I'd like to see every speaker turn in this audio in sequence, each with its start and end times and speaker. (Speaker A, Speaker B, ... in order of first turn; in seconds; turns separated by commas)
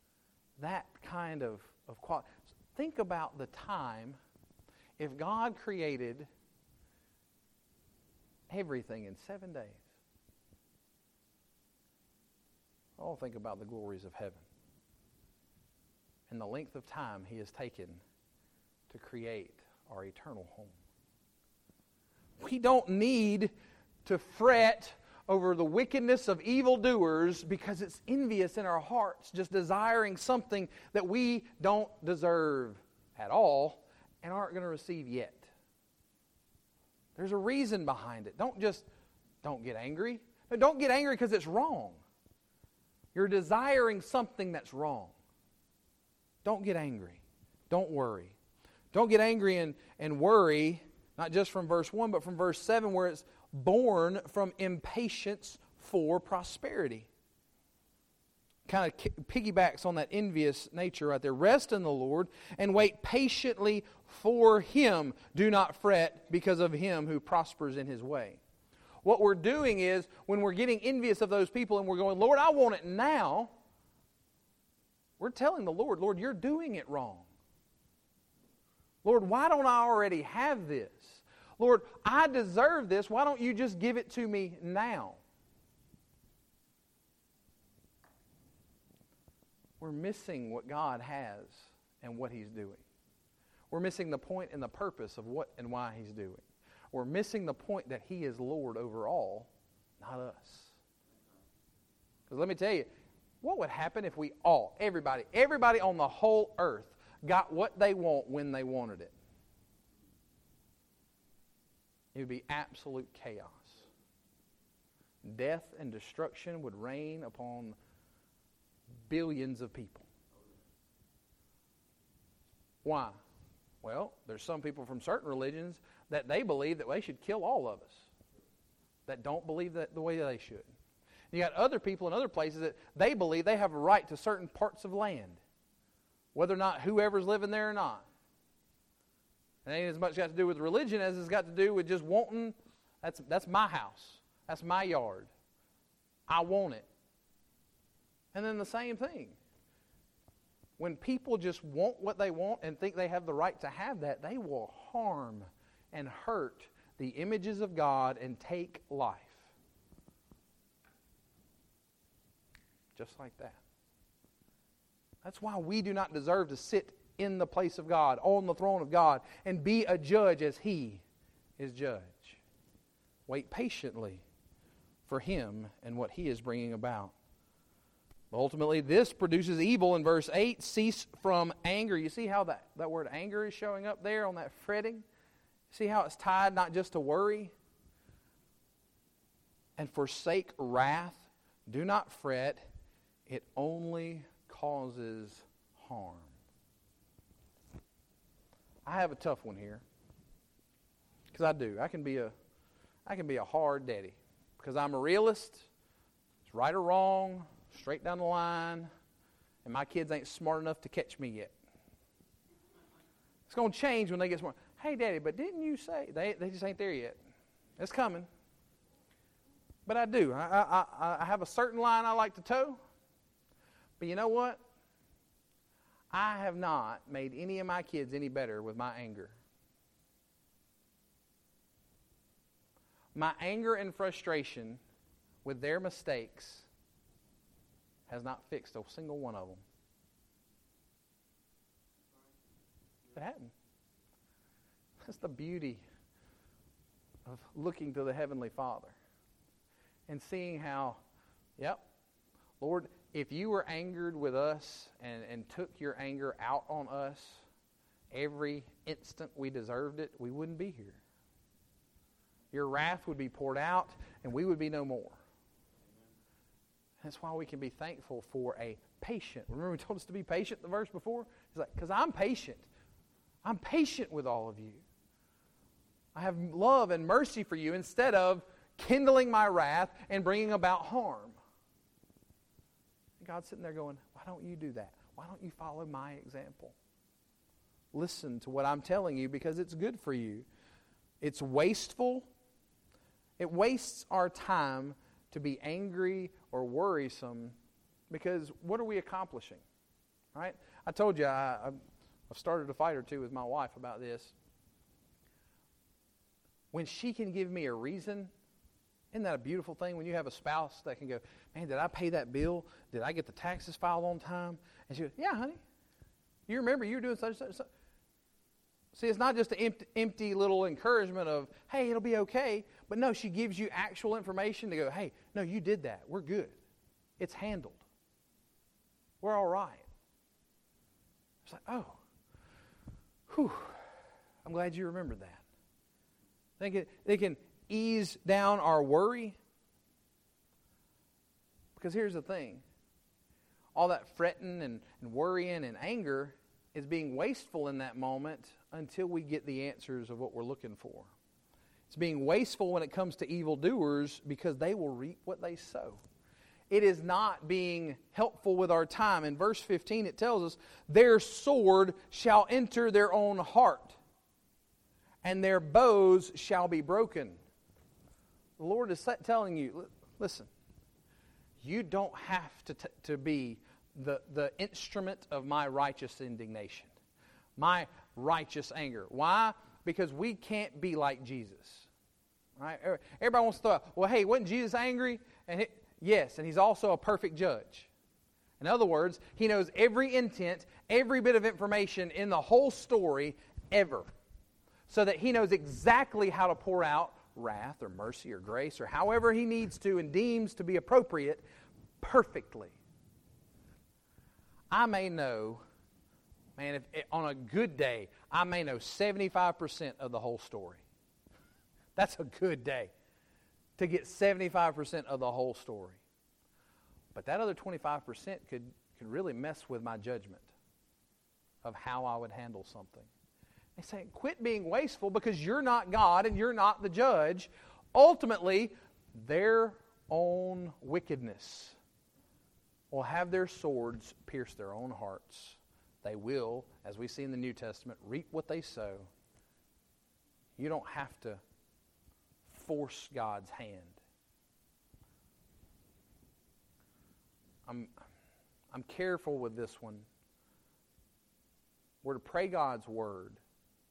Speaker A: 0.6-4.2, Speaker A: 5.0-6.3, Speaker A: 8.5-9.8, Speaker A: 13.0-14.4, Speaker A: 16.3-18.0, Speaker A: 18.9-20.8, Speaker A: 22.4-23.5, Speaker A: 24.1-35.5, Speaker A: 37.1-38.9, Speaker A: 39.4-42.0, Speaker A: 43.1-45.1, Speaker A: 46.5-48.4, Speaker A: 48.9-57.1, Speaker A: 58.7-68.4, Speaker A: 69.0-73.5, Speaker A: 75.2-77.3, Speaker A: 79.0-85.2, Speaker A: 89.8-92.8, Speaker A: 93.7-100.8, Speaker A: 102.3-102.9, Speaker A: 103.4-109.1, Speaker A: 112.1-113.8, Speaker A: 115.2-117.8, Speaker A: 119.1-120.1, Speaker A: 122.8-123.2, Speaker A: 123.8-128.1, Speaker A: 129.1-130.7, Speaker A: 131.3-135.4, Speaker A: 136.3-138.1, Speaker A: 139.7-145.3, Speaker A: 146.3-146.8, Speaker A: 148.3-149.4, Speaker A: 150.8-159.5, Speaker A: 162.9-163.6, Speaker A: 165.2-171.0, Speaker A: 171.6-172.4, Speaker A: 173.3-174.2, Speaker A: 175.1-177.2, Speaker A: 178.3-185.1, Speaker A: 185.7-187.5, Speaker A: 189.8-192.7, Speaker A: 193.3-196.4, Speaker A: 198.9-199.8, Speaker A: 201.3-202.3, Speaker A: 203.1-205.7, Speaker A: 206.5-208.9, Speaker A: 209.6-211.6, Speaker A: 213.5-217.2, Speaker A: 217.8-218.3, Speaker A: 219.9-222.8, Speaker A: 224.0-224.6, Speaker A: 226.1-229.4, Speaker A: 233.2-234.8, Speaker A: 235.4-236.7, Speaker A: 238.1-239.6, Speaker A: 243.1-243.5, Speaker A: 245.0-245.8, Speaker A: 247.2-249.0, Speaker A: 250.1-251.0, Speaker A: 251.6-251.9, Speaker A: 252.6-257.4, Speaker A: 258.1-261.0, Speaker A: 262.5-265.2, Speaker A: 267.0-272.7, Speaker A: 273.4-274.8, Speaker A: 276.1-281.4, Speaker A: 283.2-286.8, Speaker A: 287.9-290.5, Speaker A: 291.2-292.3, Speaker A: 293.4-297.6, Speaker A: 298.1-299.6, Speaker A: 300.3-304.4, Speaker A: 306.7-308.3, Speaker A: 309.1-315.6, Speaker A: 316.5-317.7, Speaker A: 318.9-326.6, Speaker A: 327.2-327.9, Speaker A: 329.2-329.9, Speaker A: 331.4-332.0, Speaker A: 333.3-333.9, Speaker A: 334.4-335.4, Speaker A: 336.6-339.4, Speaker A: 341.8-342.6, Speaker A: 343.8-351.1, Speaker A: 351.9-356.0, Speaker A: 356.7-364.0, Speaker A: 365.2-367.4, Speaker A: 368.6-370.5, Speaker A: 371.6-376.9, Speaker A: 377.6-381.9, Speaker A: 382.6-387.9, Speaker A: 388.6-394.1, Speaker A: 394.9-401.4, Speaker A: 402.0-402.8, Speaker A: 404.7-405.6, Speaker A: 406.6-410.8, Speaker A: 412.0-412.9, Speaker A: 413.8-416.0, Speaker A: 417.1-420.5, Speaker A: 421.6-423.1, Speaker A: 423.8-431.8, Speaker A: 432.9-439.1, Speaker A: 440.6-441.4, Speaker A: 442.5-444.0, Speaker A: 447.7-447.9, Speaker A: 448.7-450.1, Speaker A: 452.0-453.4